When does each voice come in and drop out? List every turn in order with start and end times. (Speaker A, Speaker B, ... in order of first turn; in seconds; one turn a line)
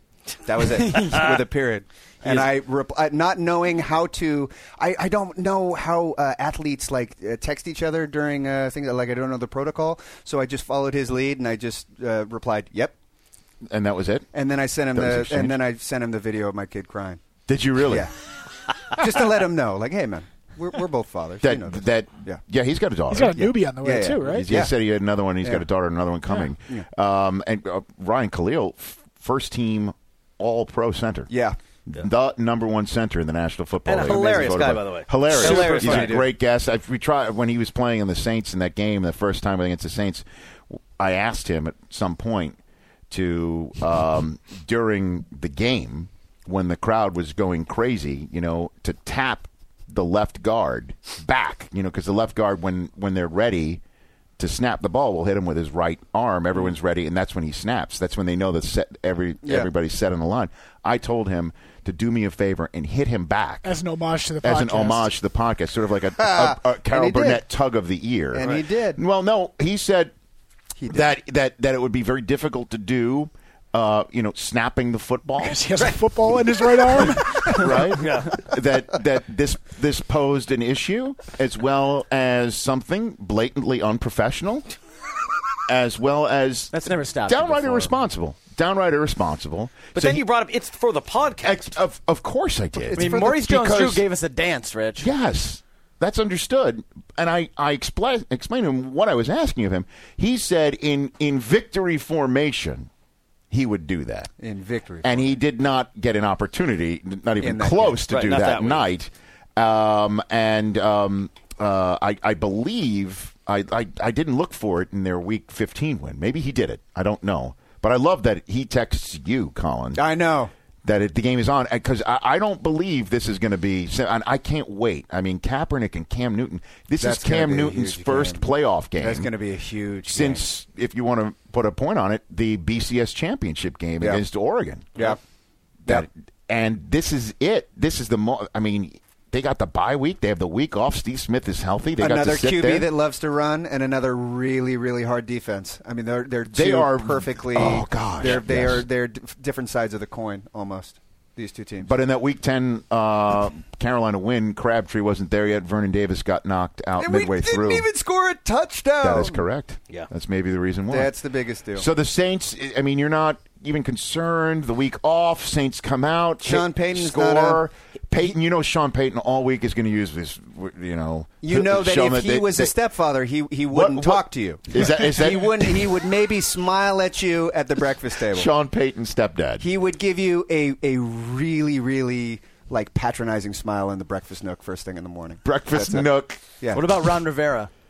Speaker A: 0.4-12.9
Speaker B: 0.9-1.4
Speaker B: 2.2-2.5
Speaker C: 13.7-14.3
Speaker A: 14.3-17.2
Speaker C: 14.9-15.6
Speaker C: 17.5-18.1
Speaker A: 17.9-18.1
Speaker A: 18.9-22.4
Speaker C: 21.4-23.6
Speaker D: 23.1-24.5
Speaker A: 23.8-24.7
Speaker C: 24.2-31.3
Speaker A: 26.4-26.9
Speaker A: 31.3-31.6
Speaker C: 31.9-40.2
Speaker B: 33.8-36.2
Speaker A: 34.0-34.7
Speaker A: 35.2-36.3
Speaker C: 41.0-42.6
Speaker C: 43.1-53.8
Speaker C: 54.4-63.7
Speaker A: 59.4-59.7
Speaker D: 63.6-65.1
Speaker C: 64.4-70.1
Speaker A: 66.2-67.5
Speaker A: 68.3-69.0
Speaker A: 70.8-71.1
Speaker C: 70.9-75.6
Speaker D: 75.4-77.9
Speaker C: 77.1-84.7
Speaker B: 77.9-78.4
Speaker C: 85.7-90.2
Speaker E: 86.7-87.9
Speaker B: 89.9-91.8
Speaker C: 91.4-94.0
Speaker A: 92.8-93.4
Speaker E: 92.9-95.1
Speaker C: 95.0-102.9
Speaker C: 103.5-104.3
Speaker A: 104.4-105.3
Speaker C: 105.0-120.0
Speaker A: 107.4-108.0
Speaker B: 108.1-108.8
Speaker A: 119.9-120.5
Speaker C: 120.8-129.3
Speaker A: 127.0-130.4
Speaker C: 130.1-135.1
Speaker A: 134.0-134.2
Speaker C: 135.8-142.9
Speaker A: 142.0-151.9
Speaker C: 146.5-148.8
Speaker C: 151.8-157.9
Speaker A: 157.0-159.4
Speaker C: 159.0-161.1
Speaker A: 160.9-161.9
Speaker C: 161.7-172.7
Speaker A: 166.4-167.6
Speaker A: 171.4-178.5
Speaker C: 173.7-175.9
Speaker C: 178.3-179.7
Speaker A: 179.6-187.1
Speaker C: 185.4-186.4
Speaker E: 186.7-187.7